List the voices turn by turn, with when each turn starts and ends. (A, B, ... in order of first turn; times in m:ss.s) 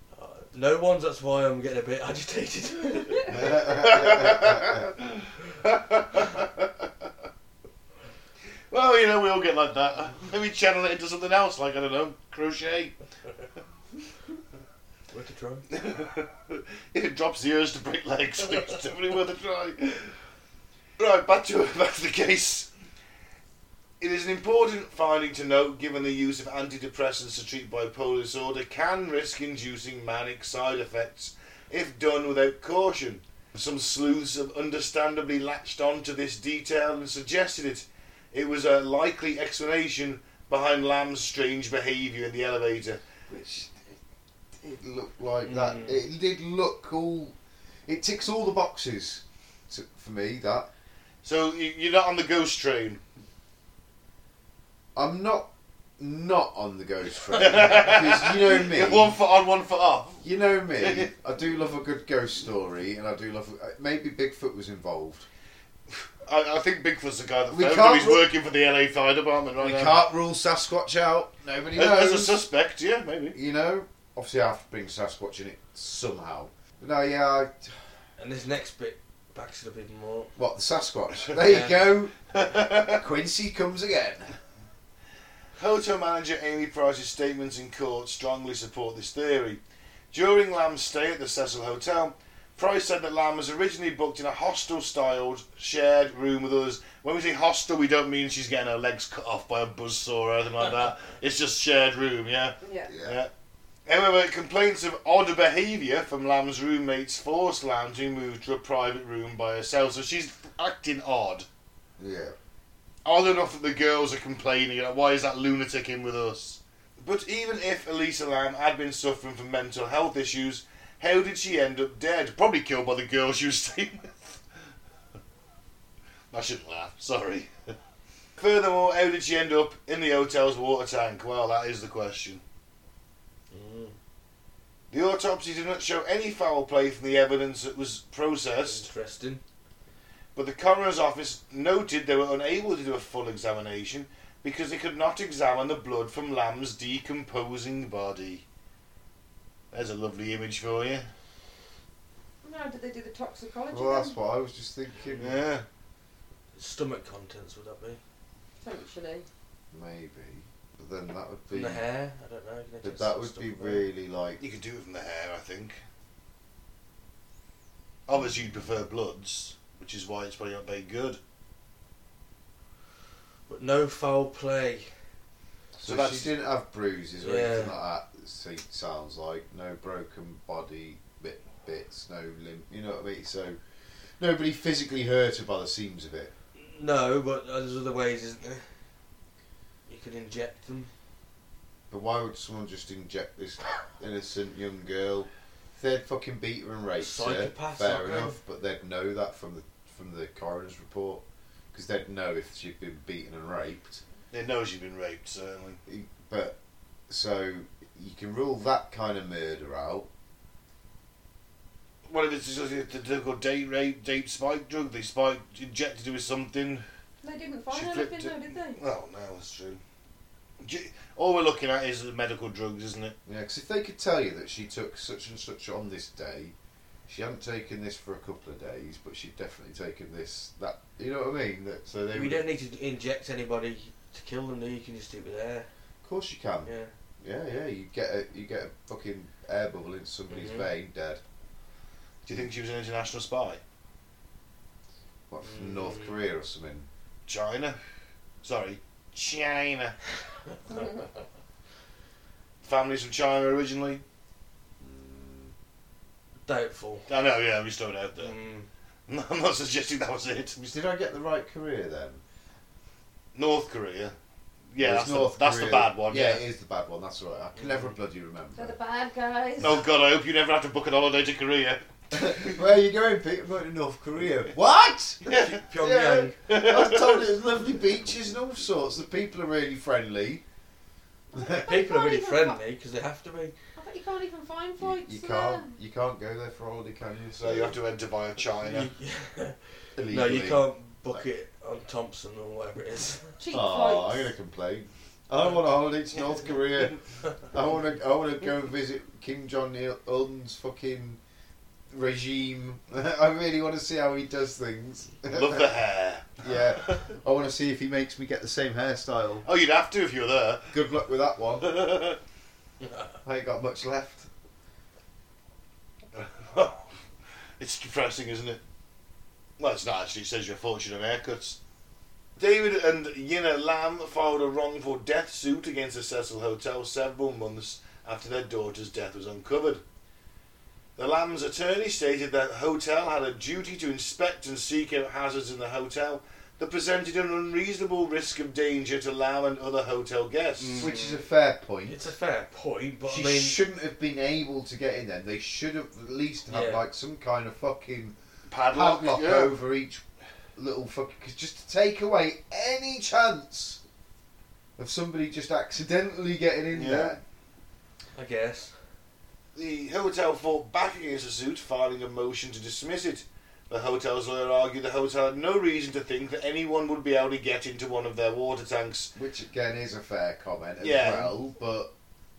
0:00.1-0:03.5 A
0:03.3-0:04.8 B
0:03.5-0:06.5 C
0:08.7-0:12.9 C
0:15.1-0:15.6 A
0:15.7-0:20.1 C
0:21.0-0:22.7 C
0:24.0-0:43.0 C
0:43.3-0:44.0 B
0:44.6-0:47.3 B
0:45.4-0:46.0 A
0:47.9-0:50.7 B
0:51.2-0:53.0 C
0:54.9-0:59.2 B
0:57.3-1:00.2 C
1:00.2-1:05.3 B
1:00.8-1:01.1 C
1:05.9-1:10.0 C
1:07.5-1:08.2 B
1:09.6-1:12.4 B
1:11.8-1:13.4 C
1:13.3-1:18.0 B
1:18.2-1:20.3 A
1:20.4-1:22.1 B
1:21.4-1:21.8 A
1:22.3-1:23.0 C
1:22.8-1:24.3 B
1:25.6-1:29.6 C
1:30.1-1:43.3 C
1:42.6-1:42.9 D
1:42.9-1:43.2 B
1:43.9-1:51.4 C
1:52.0-1:52.3 B
1:53.0-2:04.4 C
2:06.3-2:07.7 C
2:08.4-2:12.4 C
2:13.5-2:14.0 A
2:14.9-2:18.8 C
2:18.6-2:19.4 A
2:20.3-2:28.4 C
2:29.7-2:31.1 C
2:32.4-2:34.2 D
2:33.7-2:35.4 B
2:35.2-2:35.6 C
2:36.6-2:38.0 A
2:38.6-2:39.2 D
2:39.7-2:41.8 B
2:41.5-2:43.8 A
2:42.8-2:44.4 B
2:44.4-2:45.8 C
2:48.1-2:51.2 C
2:53.5-2:55.0 A
2:55.8-3:03.6 B
2:55.8-2:56.3 C
2:57.2-2:57.7 A
3:04.2-3:06.3 B
3:06.6-3:08.8 A
3:09.9-3:10.9 A
3:11.9-3:24.0 B
3:17.0-3:18.4 A
3:24.3-3:25.8 C
3:25.8-3:26.6 B
3:27.1-3:30.1 B
3:32.1-3:36.8 C
3:37.2-3:38.8 D
3:37.7-3:39.8 C
3:40.6-3:43.1 C
3:43.2-3:46.5 B
3:47.1-3:52.4 B
3:52.1-3:55.7 A
3:56.0-4:01.2 B
3:56.6-3:56.9 A
4:00.3-4:00.7 A
4:02.2-4:03.6 C
4:05.3-4:06.9 B
4:05.4-4:06.2 A
4:07.3-4:07.8 C
4:08.4-4:10.0 C
4:12.6-4:14.0 C
4:14.8-4:15.5 B
4:16.4-4:17.1 A
4:17.1-4:18.3 C
4:18.2-4:18.7 A
4:19.1-4:20.7 C
4:20.7-4:22.2 B
4:23.3-4:24.1 C
4:24.7-4:26.4 C
4:24.8-4:28.7 B
4:27.6-4:27.9 A
4:28.5-4:29.8 D
4:29.6-4:32.6 C
4:32.1-4:35.2 B
4:35.2-4:35.6 C
4:35.3-4:36.4 A
4:35.8-4:40.4 B
4:36.5-4:37.2 C
4:41.3-4:42.6 D
4:41.3-4:41.7 B
4:41.5-4:43.5 A
4:43.8-4:45.7 D
4:44.8-4:47.8 B
4:47.4-4:48.9 C
4:48.6-4:53.3 A
4:50.0-4:51.2 B
4:53.4-4:54.3 D
4:53.5-5:01.2 B
5:01.9-5:05.7 B
5:05.3-5:07.0 C
5:06.4-5:09.4 B
5:09.4-5:10.8 C
5:10.7-5:11.7 B
5:11.6-5:12.2 C
5:13.2-5:14.3 B
5:16.1-5:16.8 C
5:17.6-5:18.6 C
5:19.6-5:21.6 C
5:22.4-5:29.8 C
5:31.0-5:40.9 C
5:40.6-5:41.2 A
5:40.7-5:42.0 B
5:41.9-5:43.6 A
5:43.0-5:48.1 B
5:46.5-5:46.8 A
5:48.5-5:49.6 C
5:48.7-5:50.0 B
5:50.6-5:53.8 B
5:54.8-5:57.2 B
5:56.7-5:57.2 C
5:58.2-5:58.8 A
5:59.5-6:09.1 C
6:09.1-6:11.9 B
6:10.8-6:11.3 C